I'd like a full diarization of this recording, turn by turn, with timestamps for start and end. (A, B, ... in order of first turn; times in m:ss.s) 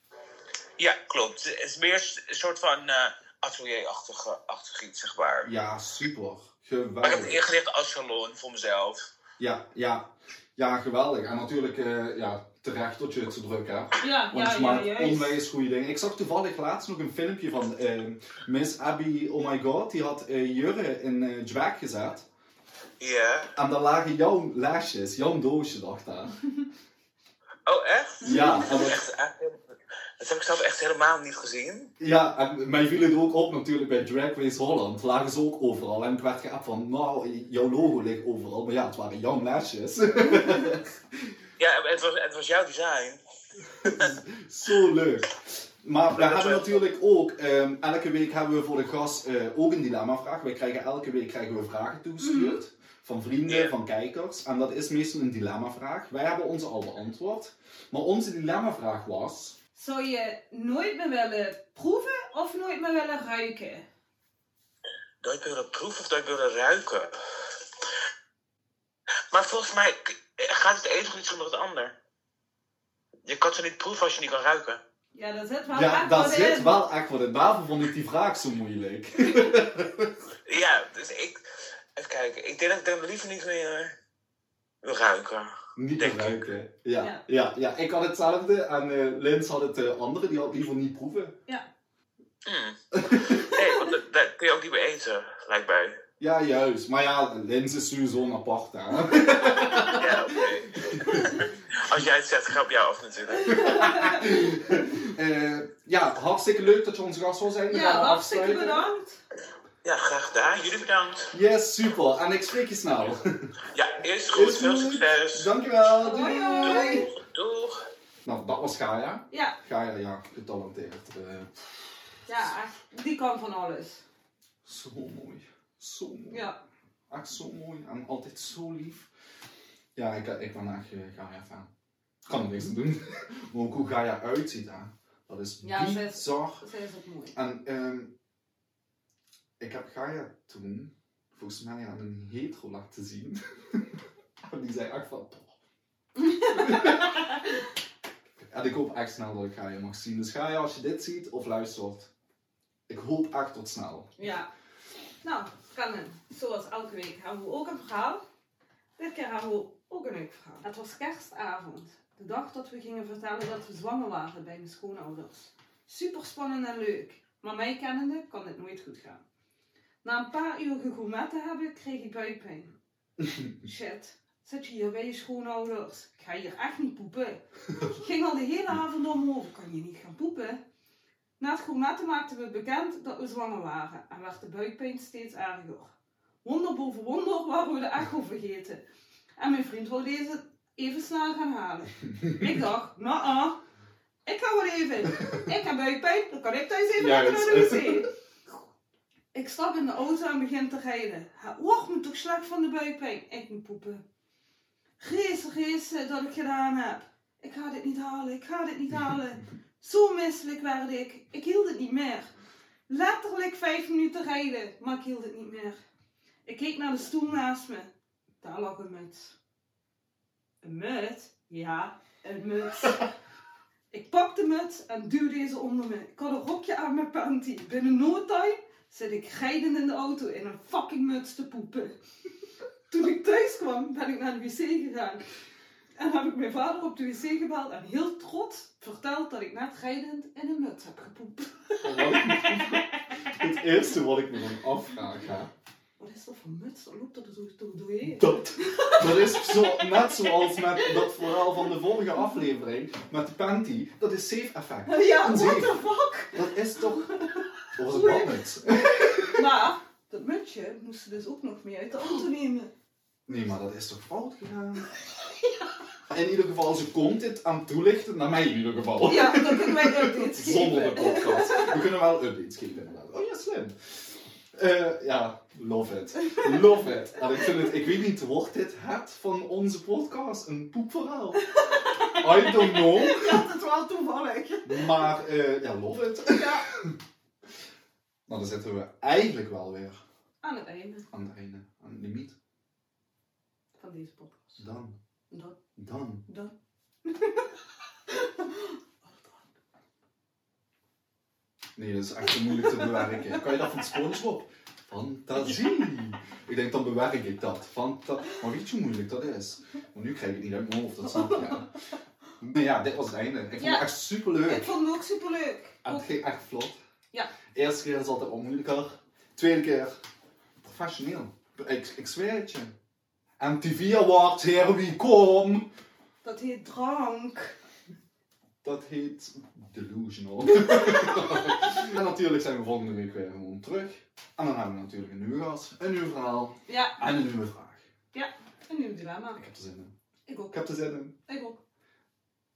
0:00.8-0:05.5 A
0:05.4-0:07.4 B
0:07.0-0:09.1 A
0:09.4-0:22.2 B
0:14.0-0:15.4 C
0:23.0-0:23.5 A
0:23.6-0:26.4 B
0:27.6-0:29.6 A
0:28.2-0:29.0 B
0:28.3-0:28.6 C
0:30.2-0:31.9 A
0:32.0-0:41.4 B
0:41.6-0:43.2 A
0:43.8-0:44.1 A
0:43.8-0:59.6 B
0:46.2-0:46.8 A
0:52.2-0:52.6 C
0:53.4-0:53.7 A
0:59.8-1:03.9 C
1:05.2-1:07.2 A
1:09.3-1:11.9 A
1:13.2-1:14.8 A
1:15.1-1:16.8 C
1:15.7-1:20.1 B
1:20.4-1:21.4 A
1:22.0-1:23.9 A
1:24.8-1:26.5 A
1:25.8-1:31.3 B
1:27.0-1:27.2 C
1:32.4-1:36.0 A
1:32.9-1:33.5 B
1:36.2-1:41.4 B
1:39.1-1:40.4 C
1:39.8-1:43.9 A
1:41.0-1:41.4 C
1:43.4-1:44.4 C
1:43.5-1:48.9 B
1:47.7-1:49.2 C
1:49.8-1:51.3 A
1:51.3-1:53.5 B
1:53.7-1:55.5 A
1:54.3-1:57.1 B
1:56.0-1:57.1 C
1:56.6-1:57.8 A
1:58.2-2:01.9 B
1:59.3-1:59.6 C
2:02.2-2:04.0 C
2:04.6-2:06.5 B
2:06.3-2:06.6 C
2:07.1-2:09.1 B
2:09.9-2:11.7 B
2:12.3-2:16.6 B
2:15.6-2:17.4 C
2:17.3-2:18.1 B
2:19.6-2:25.5 B
2:26.2-2:27.1 C
2:26.5-2:27.5 B
2:28.4-2:32.1 B
2:32.9-2:34.1 B
2:34.2-2:34.5 C
2:35.2-2:38.2 C
2:39.0-2:49.2 C
2:50.0-2:52.7 C
2:53.6-3:00.6 C
3:01.4-3:05.9 C
3:06.4-3:08.8 C
3:09.4-3:13.6 C
3:14.2-3:18.1 C
3:16.9-3:18.1 B
3:19.3-3:24.0 C
3:25.0-3:32.3 C
3:32.9-3:35.8 C
3:36.4-3:37.9 C
3:38.4-3:39.3 C
3:40.6-3:43.1 C
3:43.9-3:51.9 C
3:52.9-3:55.2 C
3:56.0-4:02.9 C
4:01.8-4:05.5 B
4:06.0-4:09.8 C
4:08.0-4:15.8 B
4:14.9-4:22.7 C
4:16.3-4:17.1 B
4:17.7-4:19.5 B
4:23.3-4:24.9 B
4:26.1-4:33.7 B
4:29.0-4:31.8 C
4:34.5-4:41.4 B
4:41.4-4:45.1 C
4:42.1-4:43.4 B
4:44.6-4:47.0 B
4:46.3-4:46.6 C
4:48.3-4:50.0 B
4:50.4-4:51.1 C
4:51.1-4:52.3 B
4:53.8-4:54.6 C
4:54.6-4:54.9 B
4:55.3-4:55.6 C
4:55.8-4:56.2 B
4:56.3-4:56.5 C
4:57.0-4:57.5 C
4:58.1-4:59.4 C
5:01.8-5:11.7 B
5:02.5-5:03.3 C
5:11.1-5:11.5 C
5:12.4-5:14.7 B
5:13.6-5:13.8 C
5:14.4-5:16.1 C
5:15.8-5:16.8 B
5:17.5-5:19.9 B
5:20.6-5:22.7 B
5:23.4-5:25.6 B
5:26.2-5:27.5 C
5:28.6-5:37.8 B
5:30.6-5:31.6 C
5:36.7-5:37.0 C
5:38.1-5:39.4 C
5:39.3-5:39.9 B
5:40.3-5:40.6 C
5:40.5-5:41.2 B
5:41.2-5:41.6 C